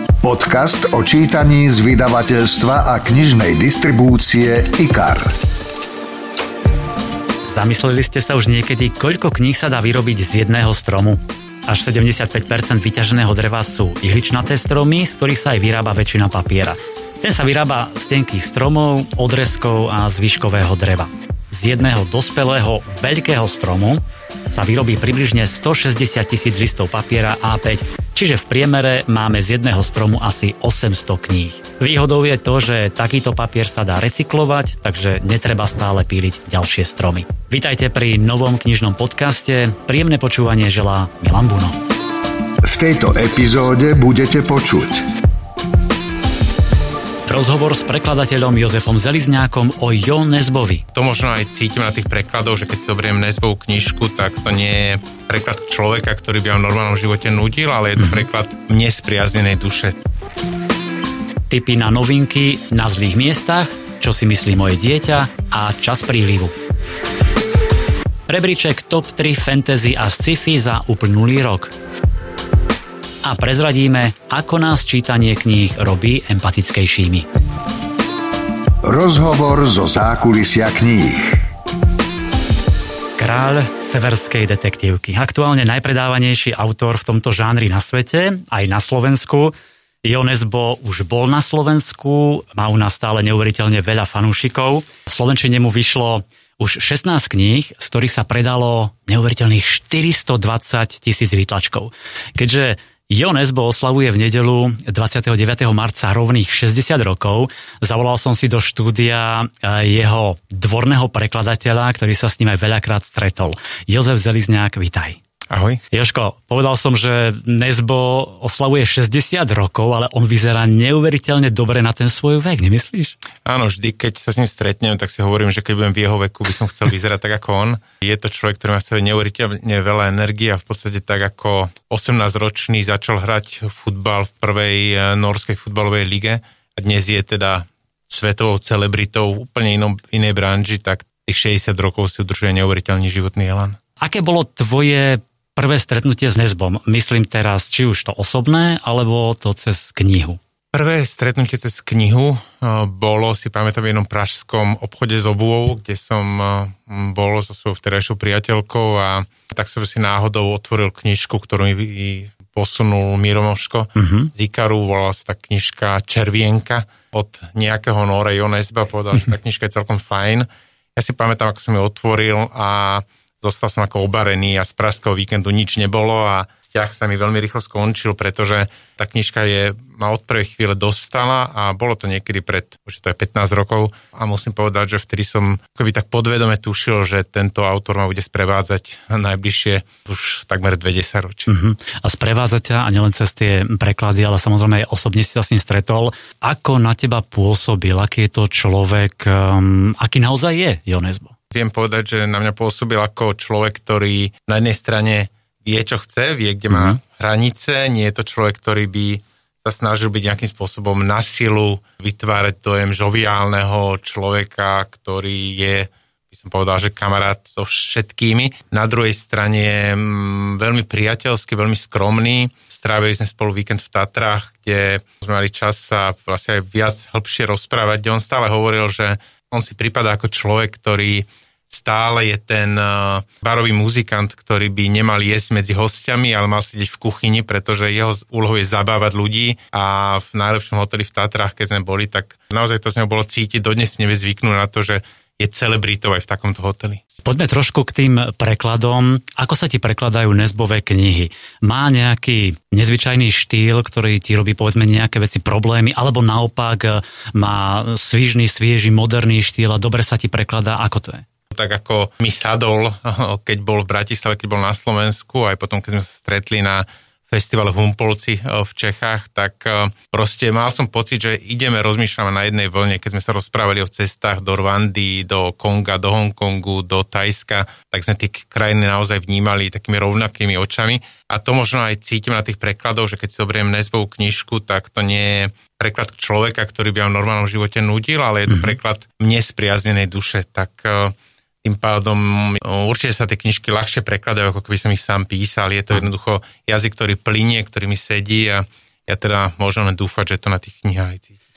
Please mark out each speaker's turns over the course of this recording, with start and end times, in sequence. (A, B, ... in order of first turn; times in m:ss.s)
0:00.2-0:05.3 A
0:07.5-0:41.8 B
0:42.6-0:45.1 A
0:47.3-0:50.8 B
0:50.9-1:00.0 C
0:58.0-0:58.3 B
1:01.5-1:06.6 B
1:08.3-1:11.7 B
1:13.2-1:17.3 B
1:18.8-1:21.5 A
1:23.2-1:55.2 B
1:55.5-1:55.8 C
1:55.9-2:03.2 B
2:03.4-2:23.8 C
2:24.0-2:30.4 B
2:30.7-3:11.5 C
2:44.0-2:44.3 B
3:11.5-3:21.3 B
3:21.5-4:07.0 C
3:26.7-3:27.0 B
4:07.2-4:21.2 B
4:21.5-5:01.3 C
4:48.5-4:48.8 B